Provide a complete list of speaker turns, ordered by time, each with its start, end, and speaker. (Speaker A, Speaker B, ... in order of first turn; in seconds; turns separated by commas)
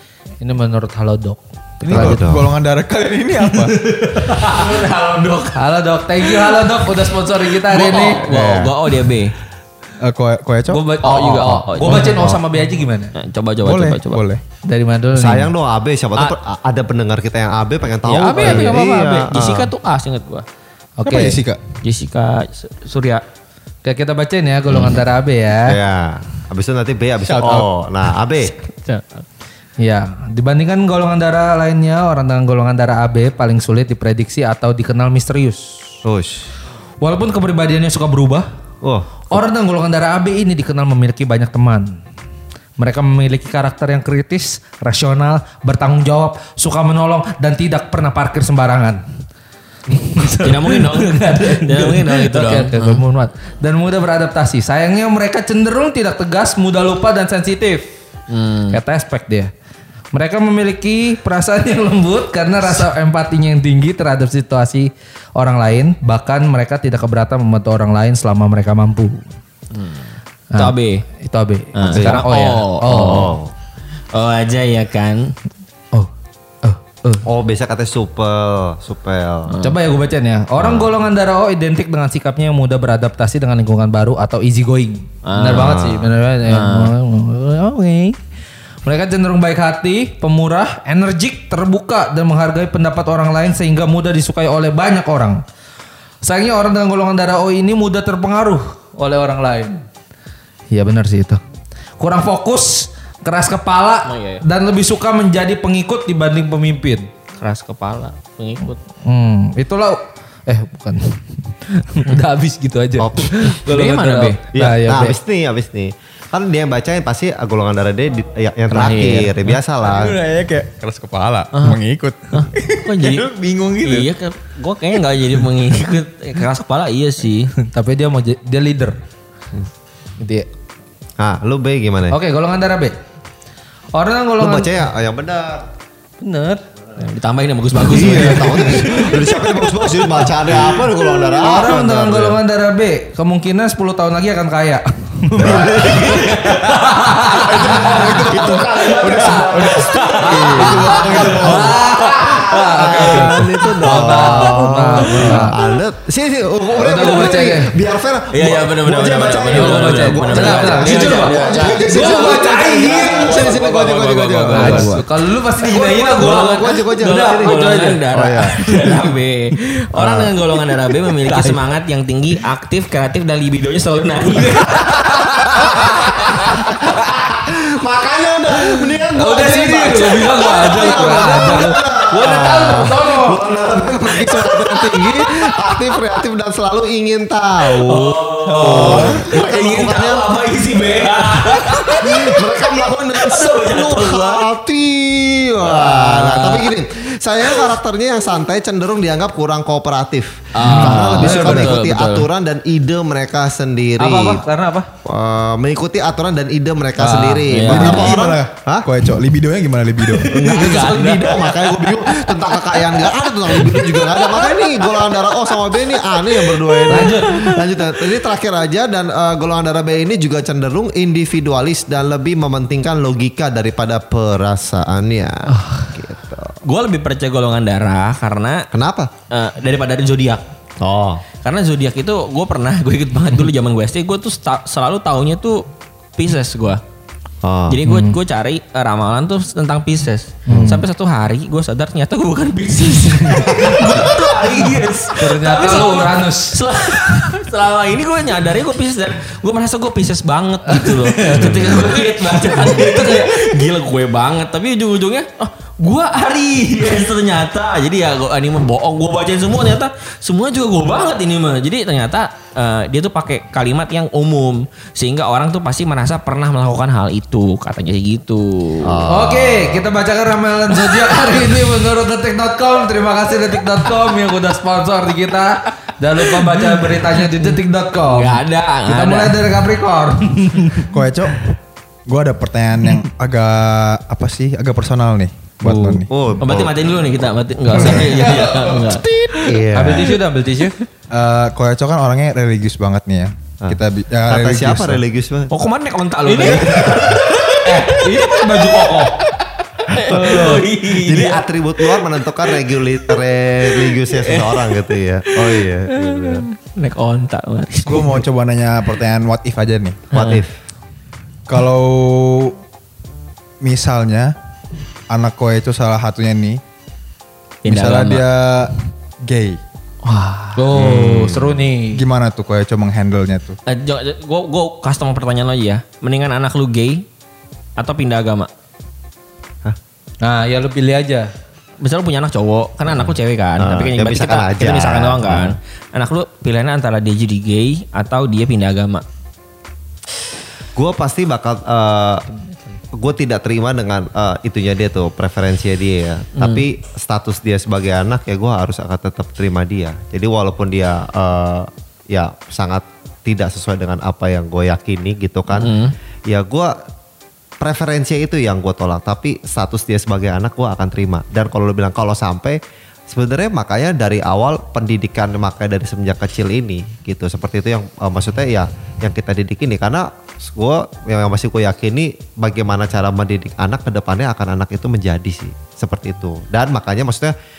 Speaker A: 0.4-2.2, Speaker B: 1.8-2.5, Speaker C: 1.8-3.8, Speaker D: 3.9-5.6, Speaker A: 4.2-4.8, Speaker A: 5.5-8.2, Speaker D: 6.2-6.9, Speaker D: 7.6-9.3, Speaker C: 8.3-8.8, Speaker C: 10.0-10.8, Speaker A: 10.7-13.1, Speaker D: 11.0-12.3, Speaker C: 11.9-12.4, Speaker D: 13.1-14.2, Speaker C: 13.6-14.4, Speaker A: 14.6-15.5, Speaker B: 15.1-19.7, Speaker D: 18.0-20.4, Speaker A: 18.1-19.3, Speaker A: 21.0-21.4, Speaker C: 21.0-21.6, Speaker D: 21.8-23.2, Speaker A: 23.8-25.8, Speaker B: 25.6-28.5, Speaker D: 28.6-29.2, Speaker A: 29.8-36.0, Speaker B: 36.0-36.5, Speaker A: 37.0-38.5, Speaker B: 38.8-39.4, Speaker A: 39.3-42.0, Speaker A: 42.8-49.0, Speaker A: 49.9-57.9, Speaker D: 50.4-53.0, Speaker D: 58.3-58.8, Speaker A: 58.7-59.5, Speaker A: 60.1-69.2, Speaker D: 69.7-71.0, Speaker A: 70.5-73.4, Speaker D: 71.7-73.3, Speaker B: 71.8-72.2, Speaker B: 72.9-73.5, Speaker D: 74.1-75.3, Speaker A: 76.6-77.2, Speaker B: 77.2-79.5, Speaker D: 79.5-79.8, Speaker A: 79.6-88.2, Speaker B: 80.6-80.9, Speaker D: 85.2-86.9, Speaker A: 88.8-95.4, Speaker A: 96.2-99.8, Speaker A: 100.7-101.4, Speaker A: 102.0-107.1, Speaker D: 104.0-104.4, Speaker D: 107.4-108.8, Speaker A: 109.0-115.2, Speaker B: 113.0-113.5, Speaker D: 113.7-114.4, Speaker B: 114.5-120.2, Speaker A: 118.7-119.3, Speaker C: 119.8-124.1, Speaker D: 121.5-121.8, Speaker D: 122.3-123.2, Speaker D: 123.8-127.5, Speaker A: 127.6-128.9, Speaker A: 130.2-130.5, Speaker B: 131.2-132.2, Speaker A: 132.1-132.9, Speaker A: 133.9-134.7, Speaker B: 134.4-135.7, Speaker A: 136.2-136.6, Speaker D: 137.0-139.4, Speaker B: 137.8-142.4, Speaker A: 137.8-139.2, Speaker A: 141.4-148.5, Speaker B: 145.3-165.0, Speaker D: 145.5-153.3, Speaker C: 147.8-148.5, Speaker C: 149.1-151.7, Speaker A: 149.1-155.6, Speaker C: 152.8-153.1, Speaker D: 155.1-155.5, Speaker A: 156.7-157.8, Speaker D: 158.3-162.3, Speaker A: 159.4-163.6, Speaker D: 162.8-165.1, Speaker A: 164.5-169.1, Speaker D: 165.6-176.8, Speaker B: 165.7-168.7, Speaker B: 169.9-170.3, Speaker A: 171.2-171.6, Speaker A: 174.4-176.6, Speaker B: 175.6-190.3, Speaker A: 179.1-183.4, Speaker D: 180.8-181.5, Speaker D: 187.8-192.6, Speaker A: 188.5-189.2, Speaker B: 191.2-204.4, Speaker D: 193.1-194.4, Speaker D: 195.6-196.7, Speaker D: 200.5-202.3, Speaker A: 200.6-201.8, Speaker A: 204.0-204.9, Speaker B: 205.0-208.9, Speaker A: 207.0-208.4, Speaker D: 207.4-208.1, Speaker C: 207.7-210.3, Speaker D: 210.2-214.8, Speaker B: 210.3-226.6, Speaker D: 216.7-217.2, Speaker A: 216.9-217.7, Speaker A: 225.5-225.9, Speaker D: 226.6-228.7, Speaker B: 228.7-229.1, Speaker D: 229.3-230.4, Speaker B: 230.8-231.2, Speaker D: 231.4-235.6, Speaker D: 236.2-236.8, Speaker B: 237.4-237.8, Speaker D: 237.7-269.0, Speaker A: 237.8-238.2, Speaker A: 240.5-240.8, Speaker B: 240.5-240.8, Speaker A: 243.3-243.9, Speaker B: 243.5-244.1, Speaker A: 245.1-246.5, Speaker A: 250.7-253.5, Speaker B: 268.8-269.8, Speaker A: 269.1-280.9, Speaker D: 276.3-277.5, Speaker D: 278.0-279.4, Speaker C: 280.9-281.4, Speaker C: 282.1-286.1, Speaker D: 285.6-289.1, Speaker B: 285.7-286.8, Speaker A: 287.7-290.8, Speaker B: 287.8-290.2, Speaker C: 291.1-295.0, Speaker B: 293.6-295.5, Speaker D: 295.5-299.1, Speaker A: 296.2-299.2, Speaker B: 296.4-297.1, Speaker D: 299.8-302.0, Speaker B: 299.9-306.4, Speaker A: 300.1-300.6, Speaker D: 303.7-308.2, Speaker C: 307.9-310.1, Speaker D: 310.1-310.4, Speaker B: 310.1-310.6, Speaker C: 311.5-312.6, Speaker C: 313.6-314.3, Speaker C: 315.1-316.6, Speaker D: 317.6-318.2, Speaker C: 317.6-318.7, Speaker C: 319.2-319.6, Speaker A: 320.0-322.0, Speaker B: 320.7-321.6, Speaker C: 321.9-323.6, Speaker D: 323.6-327.0, Speaker D: 327.8-328.5, Speaker A: 330.2-331.3, Speaker D: 331.8-339.0, Speaker B: 332.9-335.6, Speaker B: 340.7-342.2, Speaker B: 342.9-356.8, Speaker D: 346.4-346.6, Speaker D: 355.5-355.9, Speaker B: 357.6-362.6, Speaker B: 363.1-377.3